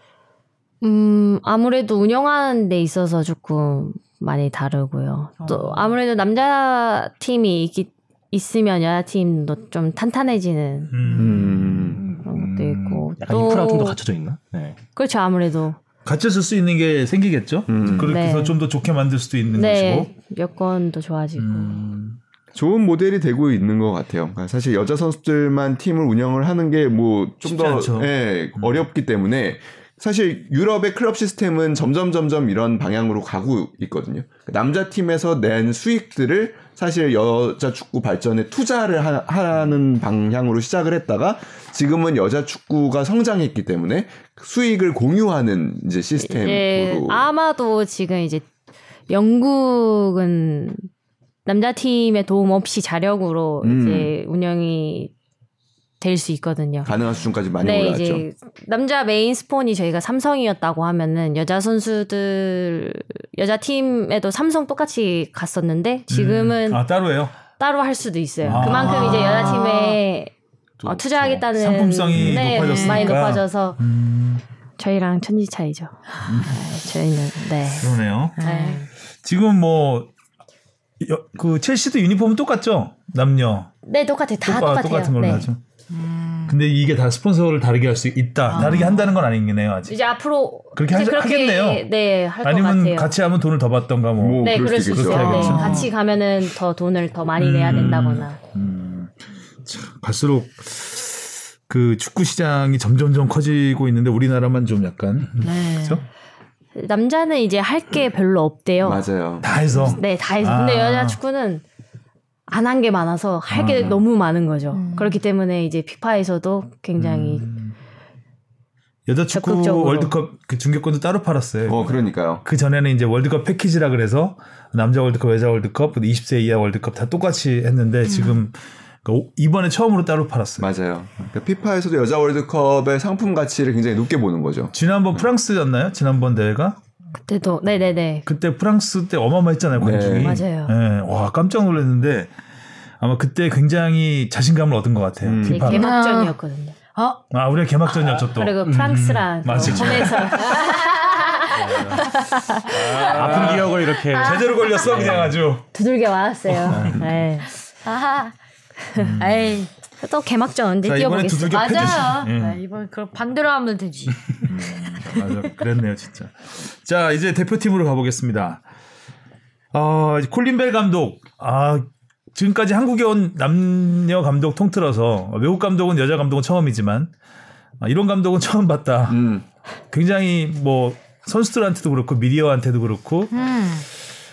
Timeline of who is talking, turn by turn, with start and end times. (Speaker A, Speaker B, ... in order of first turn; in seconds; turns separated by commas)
Speaker A: 0.8-11.2, Speaker B: 5.4-5.9, Speaker C: 10.9-11.6, Speaker D: 11.2-12.0, Speaker E: 11.3-14.8, Speaker A: 12.2-14.0, Speaker A: 14.9-15.8, Speaker C: 16.0-20.1, Speaker D: 17.7-18.1, Speaker A: 18.0-18.6, Speaker A: 19.5-21.8, Speaker C: 21.4-22.2, Speaker D: 22.5-47.3, Speaker C: 27.4-28.8, Speaker A: 46.2-48.5, Speaker A: 49.1-50.9, Speaker A: 51.5-55.1, Speaker D: 53.6-54.1, Speaker A: 56.0-56.9, Speaker D: 56.8-58.2, Speaker A: 57.6-66.8, Speaker C: 66.1-67.3, Speaker A: 67.6-70.3, Speaker C: 68.4-69.4, Speaker B: 68.5-70.0, Speaker A: 70.8-73.8, Speaker C: 70.8-74.4, Speaker B: 72.5-73.1, Speaker A: 74.8-78.9, Speaker C: 76.3-76.6, Speaker C: 77.8-78.4, Speaker B: 78.4-78.9, Speaker C: 79.2-80.1, Speaker C: 81.0-83.7, Speaker A: 83.8-85.5, Speaker C: 84.4-85.6, Speaker B: 85.9-86.6, Speaker C: 86.5-90.0, Speaker B: 88.5-89.1, Speaker D: 88.6-88.9, Speaker A: 89.9-93.1, Speaker C: 90.7-91.8, Speaker C: 92.4-95.9, Speaker D: 94.2-95.6, Speaker A: 94.4-98.4, Speaker B: 95.1-95.9, Speaker C: 97.4-106.0, Speaker B: 105.4-106.0, Speaker A: 106.7-109.0, Speaker D: 108.8-109.9, Speaker C: 109.4-111.2, Speaker A: 109.8-111.6, Speaker A: 112.5-117.5, Speaker C: 113.5-114.0, Speaker B: 114.7-115.2, Speaker C: 117.0-117.7, Speaker C: 119.1-130.7, Speaker A: 119.3-120.1, Speaker D: 121.7-122.4, Speaker B: 128.1-128.4, Speaker D: 130.6-134.7, Speaker C: 134.7-136.8, Speaker A: 137.2-138.3, Speaker C: 138.2-142.3, Speaker D: 139.8-140.4, Speaker A: 140.2-140.7, Speaker C: 143.0-145.9, Speaker D: 145.2-145.7, Speaker A: 145.4-146.8, Speaker B: 145.7-146.3, Speaker B: 146.9-147.2, Speaker C: 147.3-150.6, Speaker A: 148.2-152.8, Speaker E: 148.6-150.2, Speaker B: 150.5-152.1, Speaker C: 151.5-152.0, Speaker C: 152.6-155.7, Speaker B: 152.7-155.1, Speaker E: 152.7-155.3, Speaker A: 155.7-157.5, Speaker C: 156.5-157.1, Speaker B: 157.8-158.3, Speaker C: 158.9-159.6, Speaker B: 159.2-159.7, Speaker A: 160.0-162.2, Speaker C: 160.8-162.6, Speaker B: 161.5-165.1, Speaker C: 164.4-168.6, Speaker C: 169.7-177.1, Speaker C: 177.8-179.2, Speaker D: 179.1-179.4, Speaker C: 179.9-183.3, Speaker B: 183.3-183.8